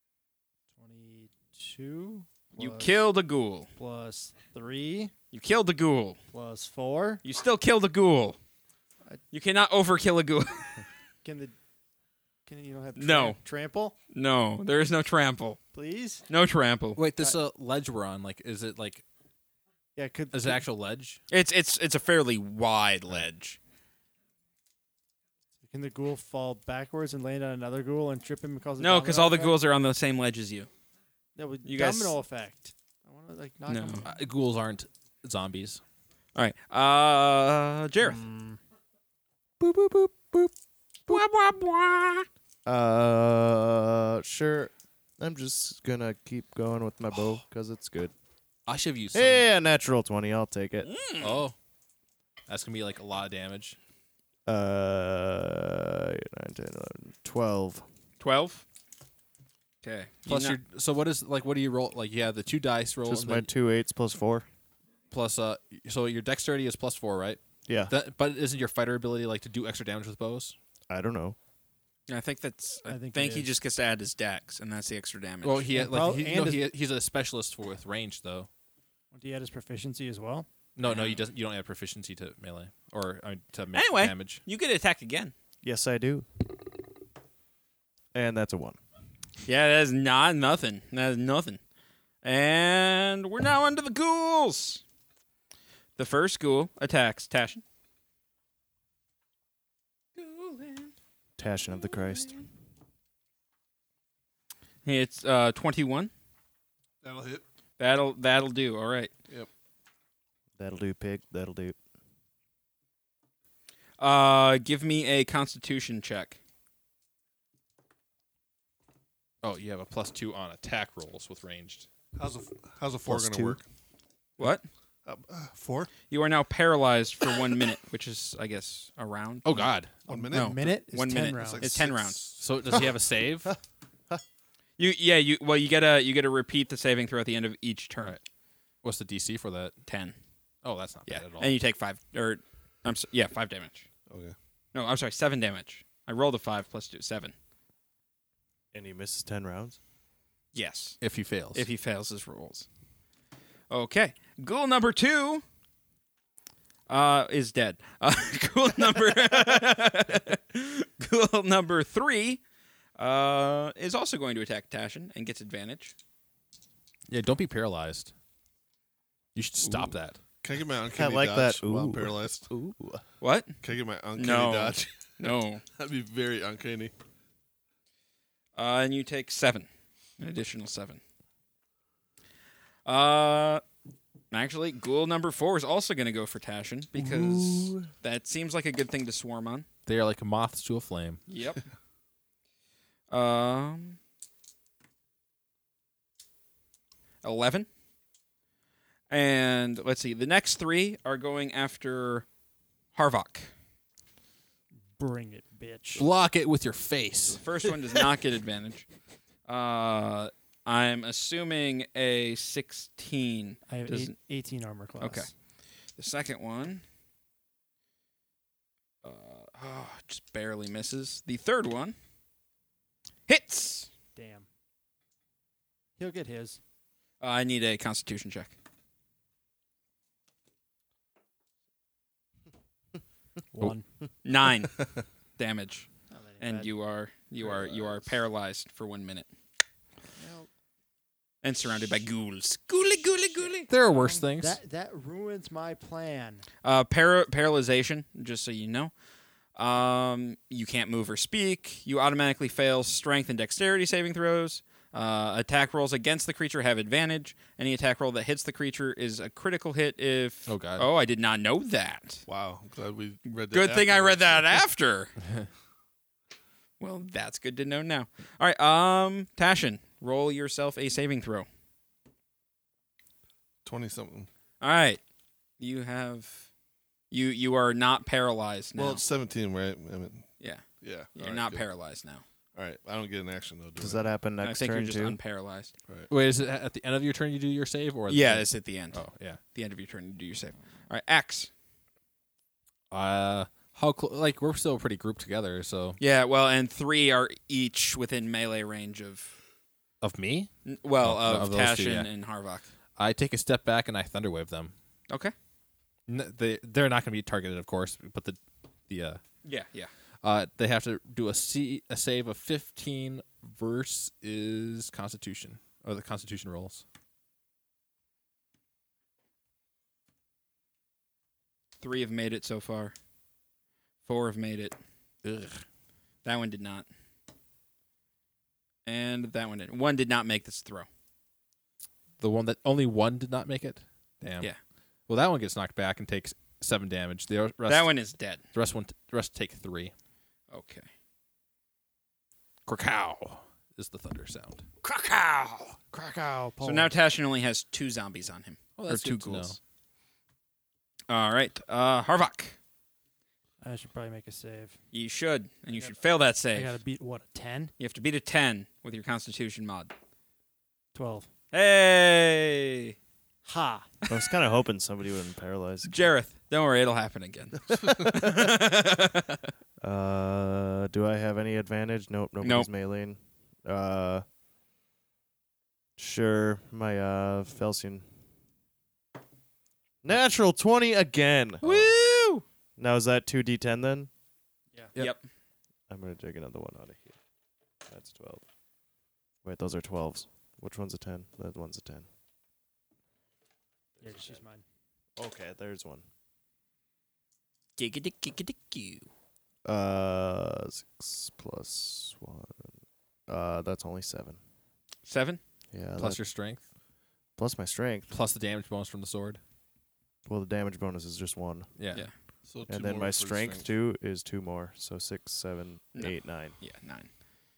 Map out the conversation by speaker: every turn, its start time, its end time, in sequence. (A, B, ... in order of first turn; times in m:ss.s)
0:00.7-0:03.0 A
0:02.6-0:03.7 B
0:03.8-0:05.1 A
0:05.3-0:06.2 B
0:06.3-0:07.2 A
0:07.2-0:08.4 B
0:09.3-0:10.8 B
0:11.2-0:11.6 A
0:12.5-0:13.9 A
0:13.0-0:13.4 B
0:14.1-0:15.6 B
0:15.7-0:16.2 A
0:16.3-0:17.0 B
0:17.0-0:19.0 C
0:20.0-0:20.6 A
0:20.3-0:21.2 C
0:21.3-0:23.6 B
0:25.7-0:29.6 A
0:28.8-0:30.7 B
0:31.4-0:34.1 A
0:31.6-0:32.2 B
0:33.7-0:34.0 B
0:34.0-0:35.8 C
0:36.4-0:38.2 B
0:38.1-0:38.6 A
0:41.1-0:42.3 B
0:42.6-0:48.1 D
0:48.7-0:49.5 C
0:49.1-0:50.9 D
0:50.8-0:51.4 B
0:51.2-0:51.6 C
0:52.5-0:53.8 C
0:54.5-0:57.9 D
0:58.2-0:58.6 B
0:59.8-1:00.6 B
1:00.3-1:03.5 C
1:03.0-1:04.5 D
1:05.1-1:10.6 C
1:07.7-1:07.9 D
1:10.9-1:11.4 D
1:12.1-1:15.7 B
1:12.9-1:13.5 A
1:15.4-1:18.5 C
1:15.7-1:16.7 A
1:19.1-1:20.5 A
1:20.8-1:24.4 C
1:20.8-1:21.2 B
1:23.7-1:25.3 B
1:25.6-1:26.5 D
1:28.1-1:28.8 D
1:29.5-1:31.6 B
1:32.2-1:34.8 B
1:36.0-1:37.6 B
1:40.2-1:40.9 B
1:41.4-1:42.4 D
1:44.8-1:46.1 B
1:47.0-1:47.4 E
1:47.8-1:49.1 B
1:50.6-1:51.8 D
1:54.0-1:56.4 B
1:59.4-2:01.9 C
2:02.2-2:03.6 E
2:03.1-2:03.6 D
2:04.4-2:04.7 B
2:05.0-2:05.9 E
2:06.1-2:09.6 B
2:09.4-2:10.0 C
2:10.0-2:10.8 E
2:10.1-2:11.7 A
2:10.3-2:12.3 B
2:11.3-2:12.4 E
2:12.4-2:13.5 C
2:14.8-2:18.2 B
2:18.8-2:19.7 C
2:19.9-2:20.2 B
2:20.6-2:21.6 C
2:21.1-2:23.9 B
2:24.1-2:24.4 E
2:24.7-2:27.3 B
2:28.7-2:29.8 D
2:30.5-2:31.0 B
2:31.0-2:31.7 C
2:31.5-2:32.7 B
2:33.7-2:35.4 B
2:36.9-2:42.4 B
2:43.0-2:45.9 B
2:47.1-2:48.1 C
2:49.4-2:50.2 C
2:49.6-2:50.0 B
2:50.4-2:52.5 E
2:50.9-2:53.0 D
2:53.2-2:53.6 B
2:53.6-2:56.9 E
2:54.2-2:55.6 B
2:58.6-2:59.7 B
3:00.2-3:01.0 B
3:02.9-3:03.6 B
3:04.3-3:09.7 B
3:07.0-3:07.8 D
3:09.9-3:11.2 C
3:11.3-3:11.6 B
3:13.1-3:14.0 B
3:17.2-3:17.7 B
3:19.1-3:22.3 B
3:23.0-3:23.5 B
3:25.0-3:26.1 A
3:26.0-3:27.4 C
3:27.4-3:28.9 B
3:29.5-3:34.1 B
3:33.7-3:35.3 A
3:35.0-3:35.3 B
3:36.0-3:36.8 B
3:39.0-3:42.0 B
3:43.3-3:43.9 B
3:44.2-3:44.5 A
3:46.0-3:46.6 A
3:47.2-3:48.5 B
3:53.5-3:53.8 A
3:54.2-3:54.8 B
3:55.4-3:55.9 B
3:56.1-3:56.7 A
3:56.4-3:59.3 B
3:57.4-3:58.1 E
4:00.2-4:00.5 A
4:01.4-4:03.7 B
4:03.7-4:04.6 C
4:03.9-4:06.4 A
4:06.6-4:08.9 B
4:09.6-4:22.2 B
4:20.5-4:20.9 C
4:22.3-4:24.6 E
4:23.5-4:25.1 B
4:26.8-4:31.5 B
4:33.6-4:34.3 E
4:34.6-4:35.0 B
4:35.6-4:36.5 B
4:37.1-4:39.0 B
4:38.8-4:40.3 E
4:40.8-4:41.6 E
4:41.2-4:42.2 B
4:42.6-4:44.0 E
4:43.8-4:45.2 D
4:44.4-4:45.7 B
4:46.1-4:49.4 C
4:48.1-4:49.0 B
4:49.5-4:51.5 B
4:52.9-4:56.0 C
4:56.0-4:59.3 B
5:00.0-5:00.5 C
5:00.7-5:02.7 B
5:01.0-5:02.1 C
5:03.0-5:04.7 C
5:06.1-5:09.2 C
5:09.4-5:09.9 B
5:10.2-5:16.8 C
5:21.8-5:22.9 B
5:24.1-5:24.8 B
5:25.2-5:25.6 C
5:26.2-5:26.9 B
5:28.9-5:30.9 B
5:32.2-5:34.5 C
5:35.1-5:37.9 C
5:37.7-5:38.4 B
5:38.5-5:39.9 C
5:40.5-5:40.9 B
5:42.7-5:44.7 C
5:44.8-5:45.8 B
5:45.9-5:46.9 A
5:46.6-5:49.6 B
5:48.8-5:49.6 C
5:51.1-5:52.6 B
5:53.6-5:54.8 A
5:54.9-5:56.8 B
5:56.5-5:57.7 A
5:57.8-5:59.9 B
6:01.0-6:01.3 A
6:01.5-6:03.0 B
6:03.5-6:03.9 A
6:04.1-6:05.9 D
6:05.9-6:09.5 B
6:07.9-6:08.5 D
6:09.8-6:14.2 D
6:12.4-6:12.7 B
6:16.0-6:18.1 D
6:20.0-6:21.9 D
6:21.6-6:22.4 B
6:22.8-6:24.1 D
6:25.0-6:25.2 B
6:25.9-6:27.2 D
6:27.9-6:28.4 D
6:29.4-6:32.1 D
6:34.0-6:34.4 D
6:34.0-6:34.6 A
6:35.2-6:36.0 D
6:37.8-6:39.1 B
6:39.6-6:42.7 D
6:43.3-6:44.4 D
6:45.1-6:45.4 B
6:45.7-6:46.2 D
6:46.0-6:46.6 C
6:47.4-6:48.1 D
6:48.1-6:49.4 C
6:50.3-6:51.7 D
6:51.8-6:52.1 C
6:52.5-6:53.7 E
6:52.7-6:56.6 D
6:56.0-6:57.1 B